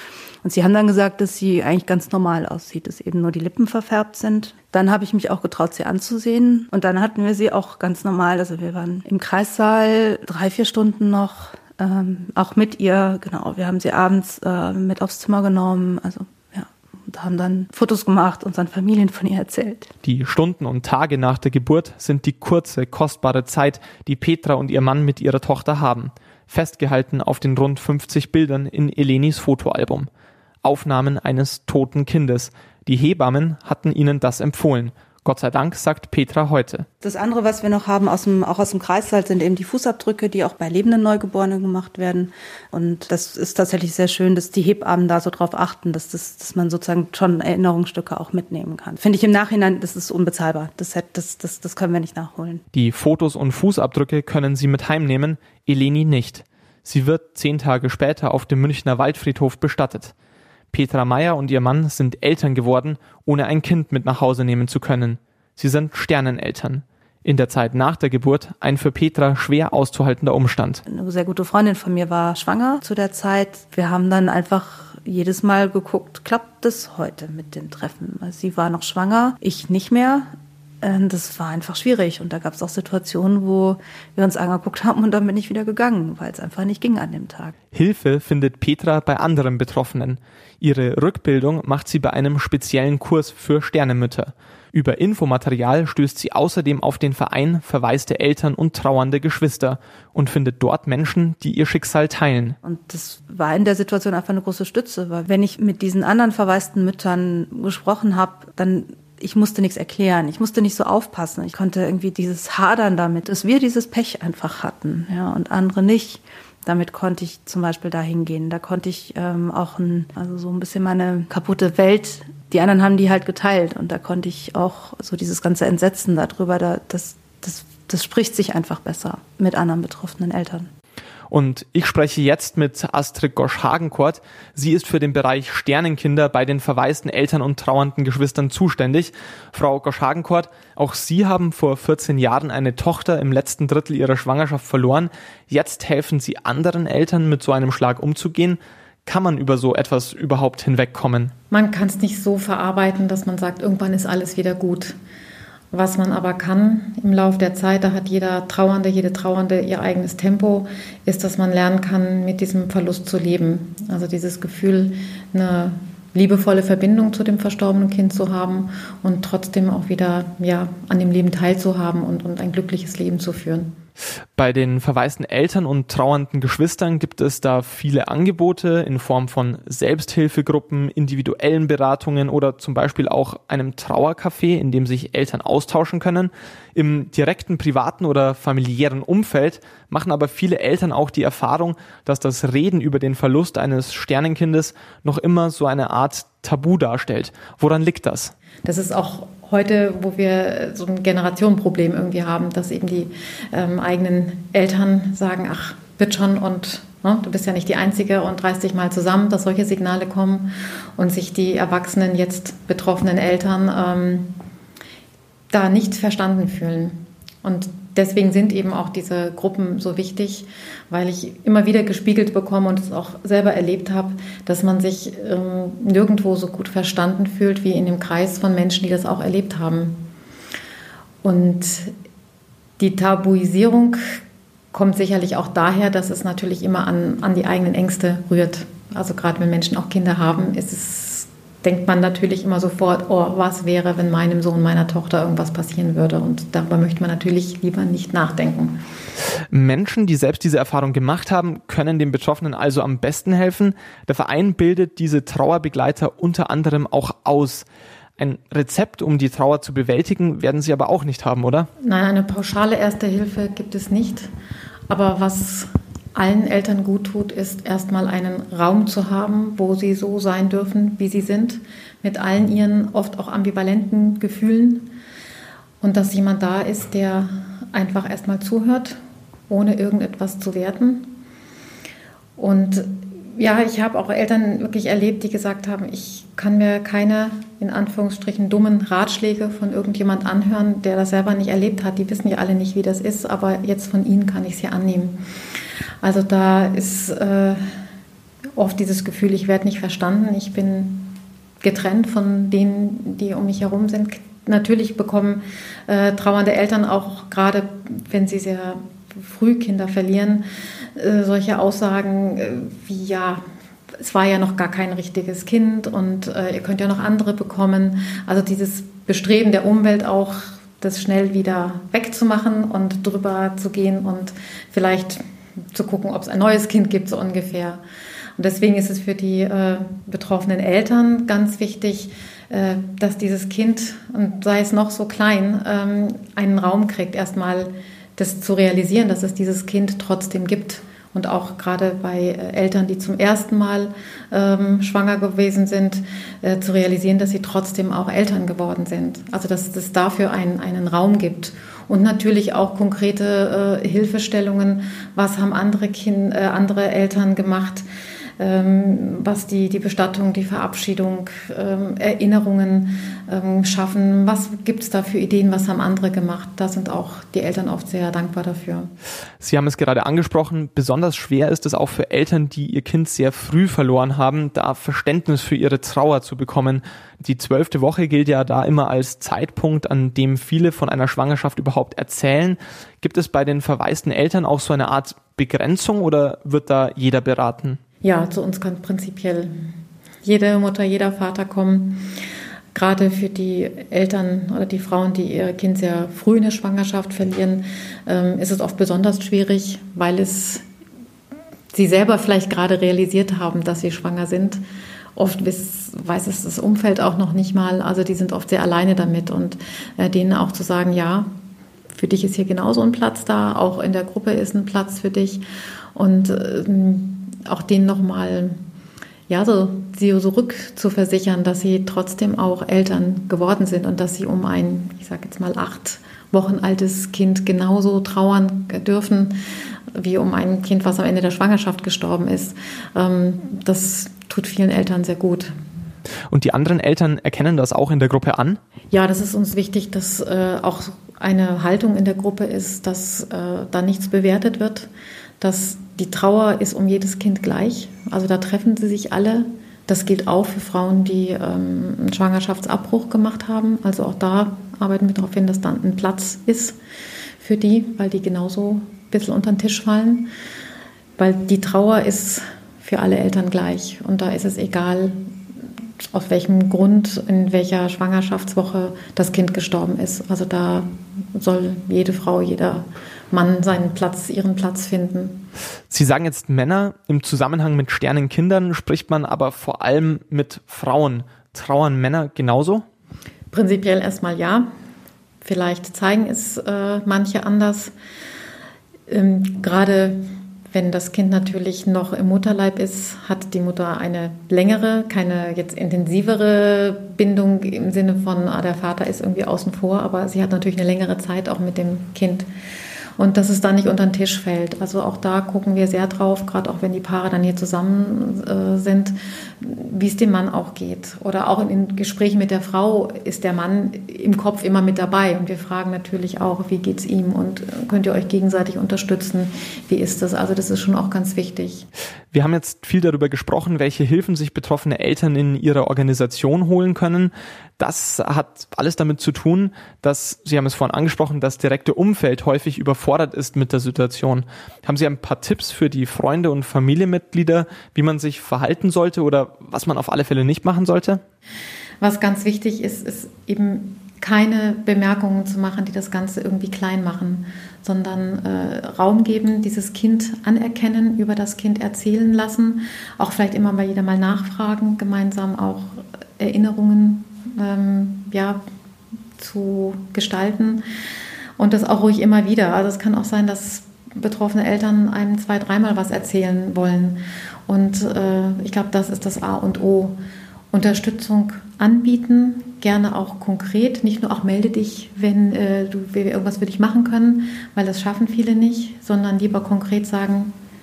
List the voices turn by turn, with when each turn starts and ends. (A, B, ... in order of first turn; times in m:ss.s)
0:00.4-0:19.9 A
0:20.0-0:30.1 B
0:30.6-0:36.9 B
0:37.0-0:52.6 A
0:52.7-1:00.1 B
1:00.7-1:10.8 B
1:10.9-1:27.6 A
1:27.7-1:42.6 B
1:42.6-2:10.7 A
2:11.3-2:31.3 B
2:31.5-2:35.0 C
2:35.7-2:53.8 C
2:54.4-3:18.3 B
3:18.6-3:34.4 C
3:35.5-3:50.0 C
3:51.2-3:51.9 C
3:52.8-3:54.2 C
3:54.7-4:08.8 C
4:09.5-4:17.6 B
4:18.2-4:21.7 B
4:21.8-4:24.3 C
4:24.9-4:34.9 C
4:35.8-4:39.0 C
4:39.5-4:41.2 C
4:42.4-4:55.2 C
4:56.0-4:57.8 C
4:58.6-5:10.4 C
5:11.0-5:13.4 C
5:14.0-5:27.8 C
5:28.4-5:57.8 C
5:58.4-6:08.9 C
6:09.4-6:27.8 B
6:28.0-6:29.7 C
6:30.2-6:32.1 C
6:32.7-6:40.6 C
6:41.7-6:44.6 C
6:45.2-6:51.3 C
6:51.9-6:55.4 C
6:56.0-6:58.6 C
6:59.3-7:09.4 C
7:10.0-7:15.5 C
7:16.3-7:18.6 B
7:18.9-7:24.9 C
7:25.4-7:36.8 C
7:37.4-7:40.3 C
7:41.2-7:45.3 C
7:46.1-7:55.5 C
7:55.9-8:02.8 B
8:03.5-8:04.7 C
8:05.4-8:07.9 C
8:09.1-8:22.5 C
8:23.2-8:41.9 C
8:42.3-9:01.2 B
9:02.0-9:18.6 C
9:19.4-9:20.8 C
9:21.6-9:30.2 C
9:30.7-9:40.5 C